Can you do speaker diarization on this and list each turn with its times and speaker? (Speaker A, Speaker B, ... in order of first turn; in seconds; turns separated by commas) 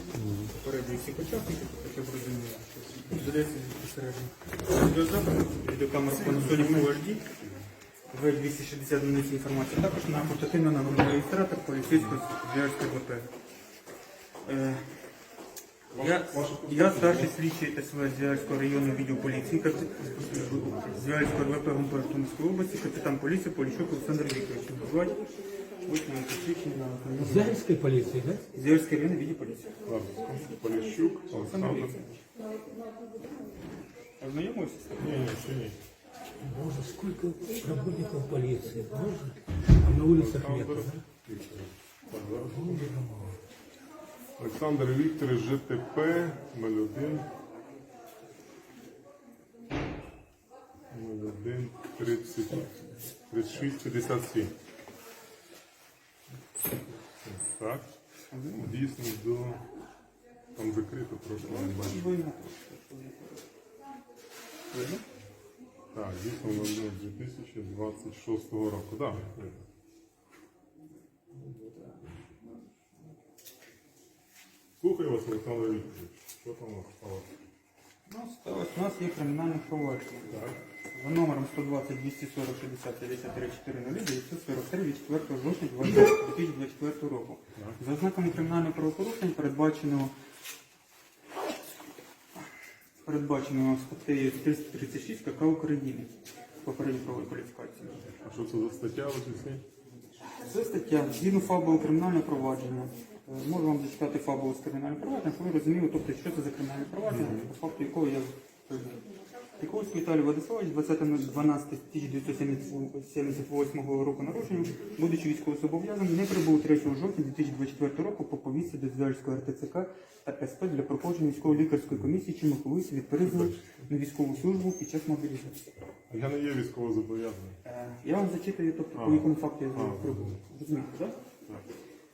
Speaker A: 0.2-0.5, Speaker B: 0.5-7.2, Speaker A: 6.1-6.9, Speaker B: 8.1-13.3, Speaker A: 11.9-12.2, Speaker B: 14.4-14.9, Speaker A: 15.9-17.3, Speaker B: 16.0-25.2, Speaker A: 20.1-20.8, Speaker B: 25.8-27.6, Speaker C: 27.2-28.4, Speaker B: 28.5-29.8, Speaker A: 29.9-32.0, Speaker B: 31.3-32.1, Speaker B: 34.2-35.1, Speaker A: 35.0-35.8, Speaker C: 36.4-41.0, Speaker A: 40.1-42.9, Speaker C: 42.5-43.4, Speaker A: 44.4-47.2, Speaker A: 50.9-54.5, Speaker A: 57.2-57.9, Speaker B: 58.3-58.7, Speaker A: 58.5-59.6, Speaker A: 60.6-62.0, Speaker B: 61.4-63.4, Speaker B: 64.7-65.0, Speaker A: 65.9-69.6, Speaker A: 74.8-77.3, Speaker B: 78.1-80.3, Speaker A: 80.3-80.6, Speaker B: 80.9-90.1, Speaker B: 93.0-96.1, Speaker B: 96.6-98.0, Speaker A: 98.2-99.6, Speaker B: 100.3-109.0, Speaker A: 107.1-107.5, Speaker B: 109.6-125.7, Speaker A: 123.2-123.6, Speaker A: 126.1-127.5, Speaker B: 127.7-131.2, Speaker A: 129.0-130.4